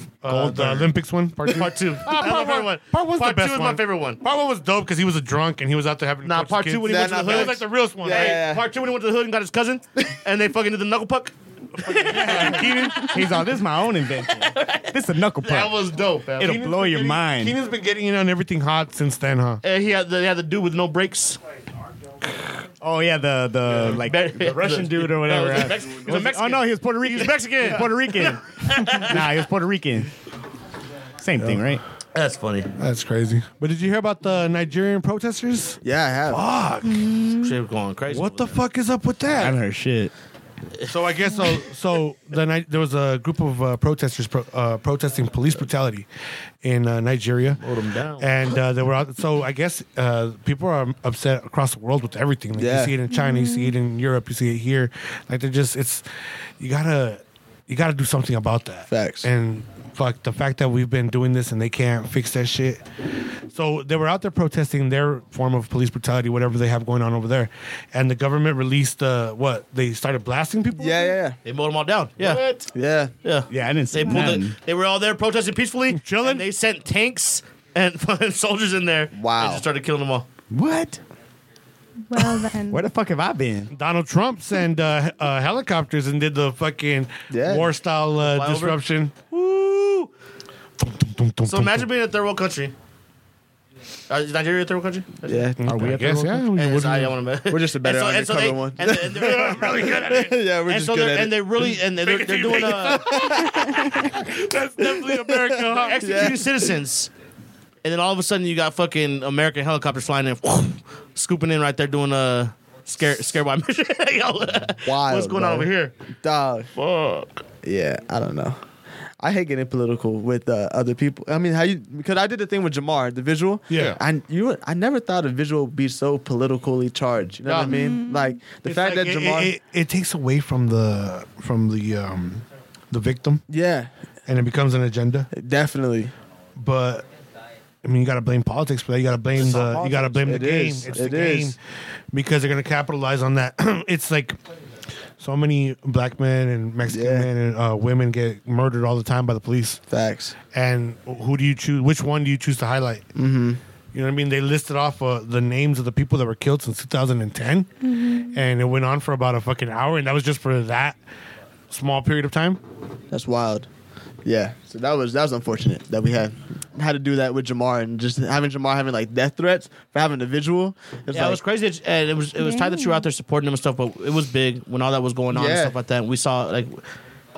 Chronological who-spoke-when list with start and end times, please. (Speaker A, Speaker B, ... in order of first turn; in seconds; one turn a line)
Speaker A: 0.2-8.4
Speaker B: 0.3-0.9
Speaker B: 1.5-4.2
Speaker B: 6.2-13.4
Speaker C: 6.8-8.7
Speaker A: 11.8-13.3
Speaker D: 12.1-17.6
Speaker B: 14.3-16.7
Speaker A: 16.4-19.6
Speaker B: 19.6-21.4
Speaker D: 22.8-30.1
Speaker B: 23.7-29.3
Speaker D: 31.2-31.8
Speaker B: 32.1-32.7
Speaker A: 32.8-37.2
Speaker C: 35.8-36.4
Speaker E: 36.9-37.5
Speaker B: 37.4-38.6
Speaker A: 38.1-39.6
Speaker D: 39.4-40.1
Speaker A: 40.9-46.1
Speaker A: 46.6-47.6
Speaker B: 47.6-48.6
Speaker A: 48.2-56.0
Speaker C: 52.5-52.9
Speaker E: 53.1-53.7
Speaker A: 56.6-62.8
Speaker C: 58.9-59.3
Speaker A: 63.5-71.1
Speaker C: 70.8-71.4
Speaker B: 71.5-72.7
Speaker C: 72.7-73.1
Speaker B: 73.2-80.3
Speaker D: 73.5-74.5
Speaker A: 75.9-76.5
Speaker C: 79.1-79.6
Speaker D: 80.5-81.0
Speaker E: 82.1-82.8
Speaker D: 82.7-83.7
Speaker A: 83.7-89.2
Speaker C: 87.3-87.7
Speaker B: 88.2-88.8
Speaker B: 89.3-90.1
Speaker A: 90.8-91.9
Speaker B: 91.5-92.7
Speaker B: 94.1-95.5
Speaker C: 95.3-95.7
Speaker A: 95.6-97.2
Speaker D: 95.6-96.5
Speaker B: 96.6-103.4
Speaker C: 97.5-101.5
Speaker A: 99.2-100.2
Speaker A: 102.0-106.3
Speaker C: 103.2-103.5
Speaker C: 105.0-106.6
Speaker B: 105.7-107.1
Speaker B: 107.8-115.9
Speaker C: 114.8-115.7
Speaker C: 116.2-116.7
Speaker B: 116.8-117.4
Speaker C: 117.6-118.6
Speaker C: 119.2-129.5
Speaker A: 123.7-124.0
Speaker A: 127.4-127.8
Speaker E: 127.7-128.4
Speaker A: 128.7-133.4
Speaker C: 133.5-133.9
Speaker A: 134.3-135.3
Speaker C: 135.3-136.1
Speaker A: 136.6-137.1
Speaker A: 137.8-141.6
Speaker B: 139.3-140.4
Speaker C: 140.2-141.6
Speaker A: 142.1-144.4
Speaker A: 145.2-149.8
Speaker C: 146.8-147.3
Speaker C: 149.9-150.4
Speaker A: 150.5-153.1
Speaker C: 153.2-153.6
Speaker A: 153.9-157.7
Speaker E: 157.8-158.4
Speaker A: 158.2-161.0
Speaker A: 161.7-162.6
Speaker C: 163.1-163.7
Speaker C: 164.2-171.4
Speaker B: 171.1-176.8
Speaker E: 172.4-173.1
Speaker C: 175.3-175.8